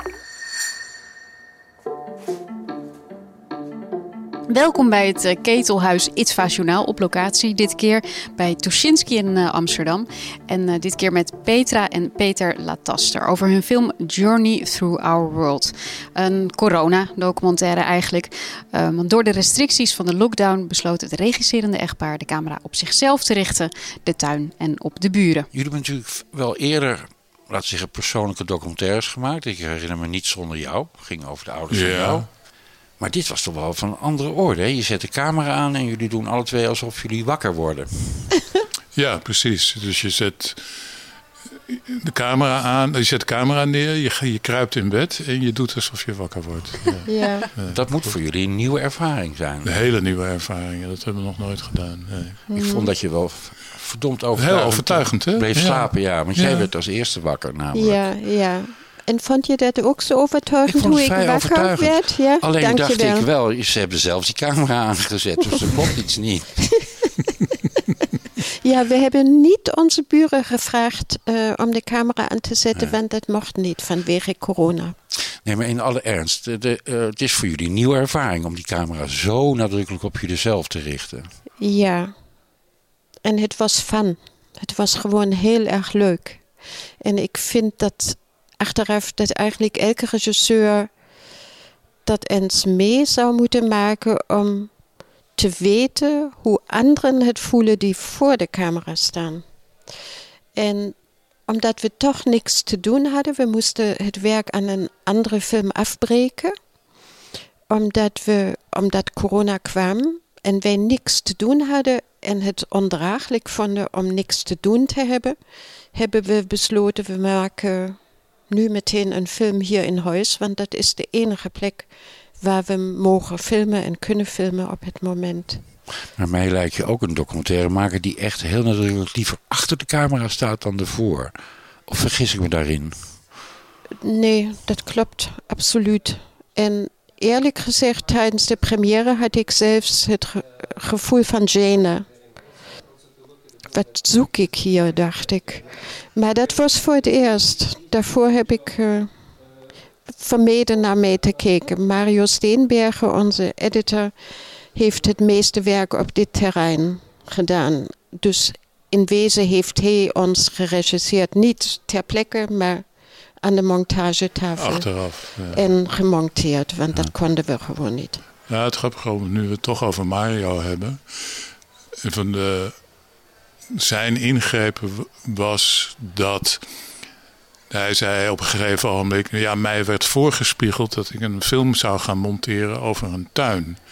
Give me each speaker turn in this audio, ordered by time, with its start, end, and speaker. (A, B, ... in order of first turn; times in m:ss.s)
0:04.5-0:25.5 A
0:25.5-0:32.4 B
0:31.7-0:32.3 C
0:33.0-0:38.4 B
0:38.9-0:40.7 C
0:41.7-0:48.1 C
0:47.0-0:47.5 D
0:47.7-0:49.7 B
0:49.6-0:52.4 C
0:52.5-0:52.9 D
0:52.5-0:58.0 B
0:54.3-0:56.7 C
0:57.7-1:03.3 D
1:00.7-1:06.9 B
1:08.4-1:15.0 D
1:15.4-1:21.3 B
1:21.6-1:22.1 D
1:23.2-1:26.4 D
1:27.0-1:30.9 D
1:32.0-1:34.7 D
1:35.4-1:39.4 D
1:40.5-1:41.0 D
1:41.5-1:46.5 D
1:47.7-1:55.4 D
1:55.9-2:05.6 D
2:06.1-2:11.3 B
2:11.9-2:13.3 B
2:14.0-2:22.1 D
2:23.7-2:29.1 D
2:30.1-2:34.1 D
2:34.7-2:42.8 D
2:43.4-2:48.2 D
2:44.6-2:45.7 C
2:48.5-2:51.4 C
2:52.0-2:52.8 C
2:53.7-2:56.6 C
2:57.7-3:03.8 C